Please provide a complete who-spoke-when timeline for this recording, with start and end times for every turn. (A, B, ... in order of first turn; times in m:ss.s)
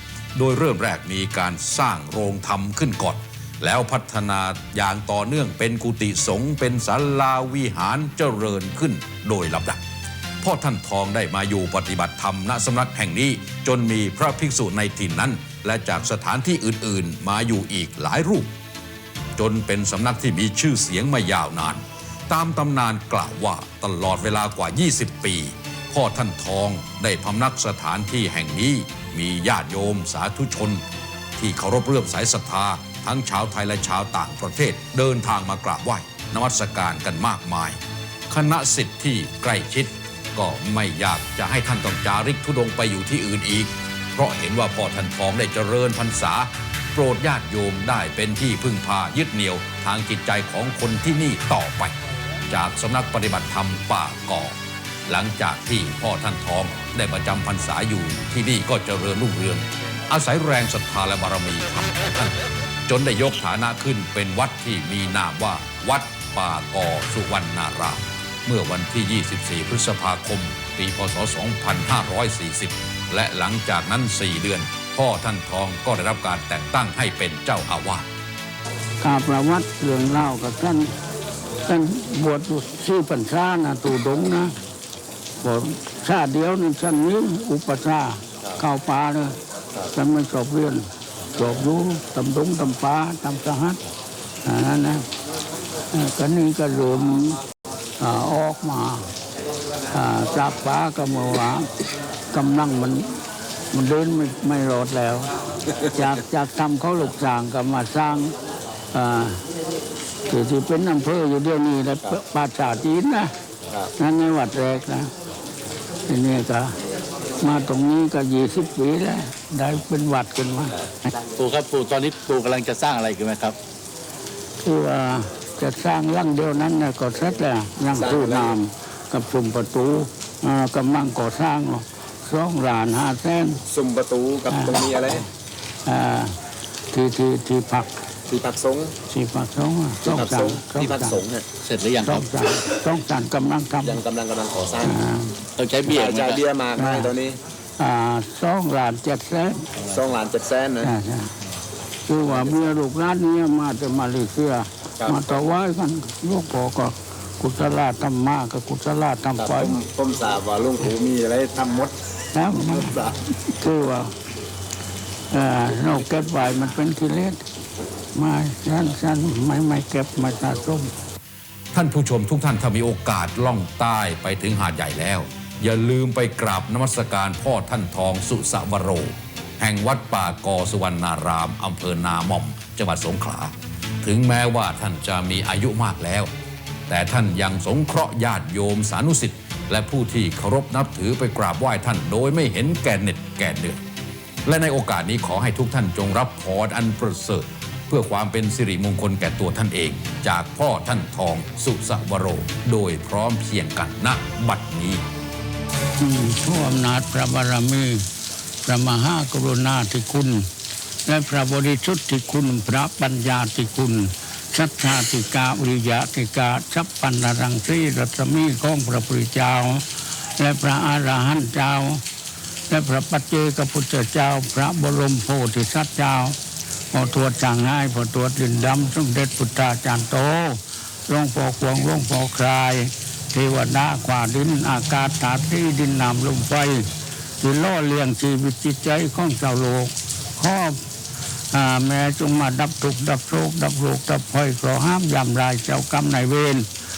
0:00.3-0:09.8 A
0:10.4-0:18.5 A
0:19.4-0:30.8 A
0:31.4-0:52.0 A
0:52.5-0:54.5 A
0:55.1-1:02.3 A
1:02.9-1:18.1 A
1:19.0-1:20.9 B
1:21.6-1:24.5 B
1:25.4-1:29.4 B
1:29.9-1:33.8 B
1:34.4-1:35.0 B
1:35.9-1:37.4 B
1:38.0-1:39.0 B
1:39.9-1:41.7 B
1:42.3-1:43.0 B
1:43.7-1:45.3 B
1:45.9-1:48.3 B
1:48.9-1:49.4 B
1:50.3-1:53.3 B
1:54.0-1:55.1 B
1:56.1-1:56.8 B
1:57.4-2:00.8 B
2:01.2-2:03.6 C
2:04.6-2:13.6 B
2:07.9-2:08.6 D
2:13.7-2:15.2 D
2:14.5-2:15.2 B
2:15.8-2:16.3 B
2:16.9-2:17.9 B
2:18.3-2:18.9 D
2:19.1-2:21.2 B
2:20.0-2:21.4 D
2:21.6-2:22.3 C
2:22.0-2:24.0 B
2:23.8-2:25.0 D
2:24.8-2:25.4 B
2:25.6-2:26.4 C
2:25.8-2:27.4 D
2:26.7-2:27.1 B
2:27.8-2:29.7 B
2:29.9-2:30.9 D
2:30.8-2:31.3 B
2:32.1-2:39.8 B
2:32.2-2:32.7 D
2:35.0-2:35.3 D
2:39.4-2:41.9 D
2:42.3-2:44.1 B
2:42.5-2:43.1 D
2:45.3-2:47.4 B
2:48.1-2:50.9 B
2:51.7-3:06.3 A
3:06.9-3:13.8 A
3:14.4-3:25.0 A
3:26.0-3:28.1 B
3:28.6-3:30.4 B
3:31.0-3:39.8 B
3:40.4-3:42.0 B
3:42.7-3:46.4 B
3:46.9-3:56.9 B
3:57.4-4:00.8 B
4:01.5-4:06.7 B